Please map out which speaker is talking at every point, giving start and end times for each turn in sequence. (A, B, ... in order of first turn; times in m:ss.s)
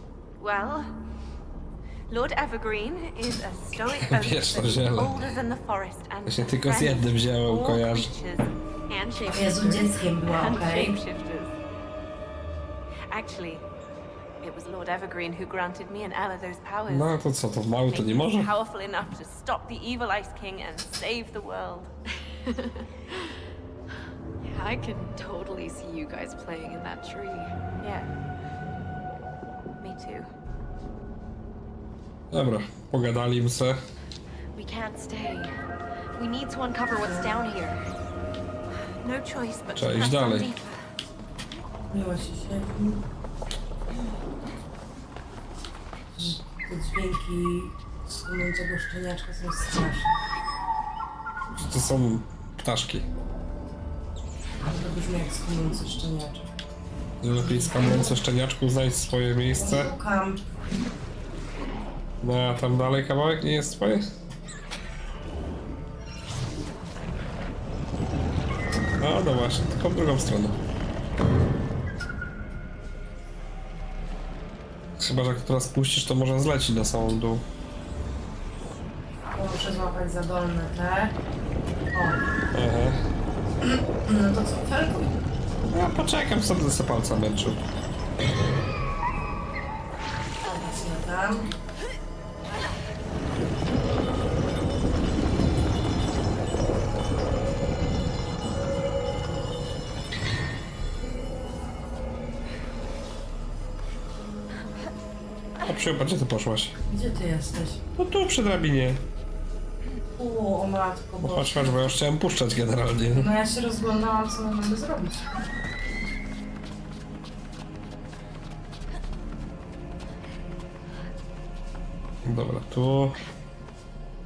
0:00.4-0:00.9 A
0:02.1-0:11.5 A
0:04.0-0:05.1 B
0:06.2-0:08.1 B
0:09.3-0:11.0 C
0:13.1-0:13.6 A
0:14.4-0:17.2 A
0:16.9-0:18.5 B
0:17.9-0:23.3 A
0:24.4-0:27.5 D
0:27.8-0:28.1 A
0:29.8-0:30.3 A
0:32.3-0:33.8 B
0:34.5-0:35.5 D
0:36.2-0:37.8 D
0:37.0-0:37.3 C
0:39.0-0:40.9 A
0:39.8-0:40.5 B
0:41.9-0:43.0 C
0:46.1-0:50.1 C
0:51.5-0:53.0 B
0:54.6-0:56.4 C
0:57.2-0:59.9 B
0:57.4-0:58.2 C
0:59.6-1:00.4 C
1:02.2-1:04.1 B
1:09.0-1:10.6 B
1:15.0-1:17.4 B
1:19.3-1:21.2 C
1:21.9-1:22.2 C
1:22.5-1:23.0 B
1:23.6-1:25.2 C
1:25.7-1:27.6 B
1:30.4-1:31.5 C
1:45.6-1:46.7 B
1:46.9-1:47.8 C
1:48.0-1:49.0 B
1:50.2-1:51.9 C
1:51.2-1:53.3 B
1:53.1-1:55.3 C
2:02.2-2:03.2 B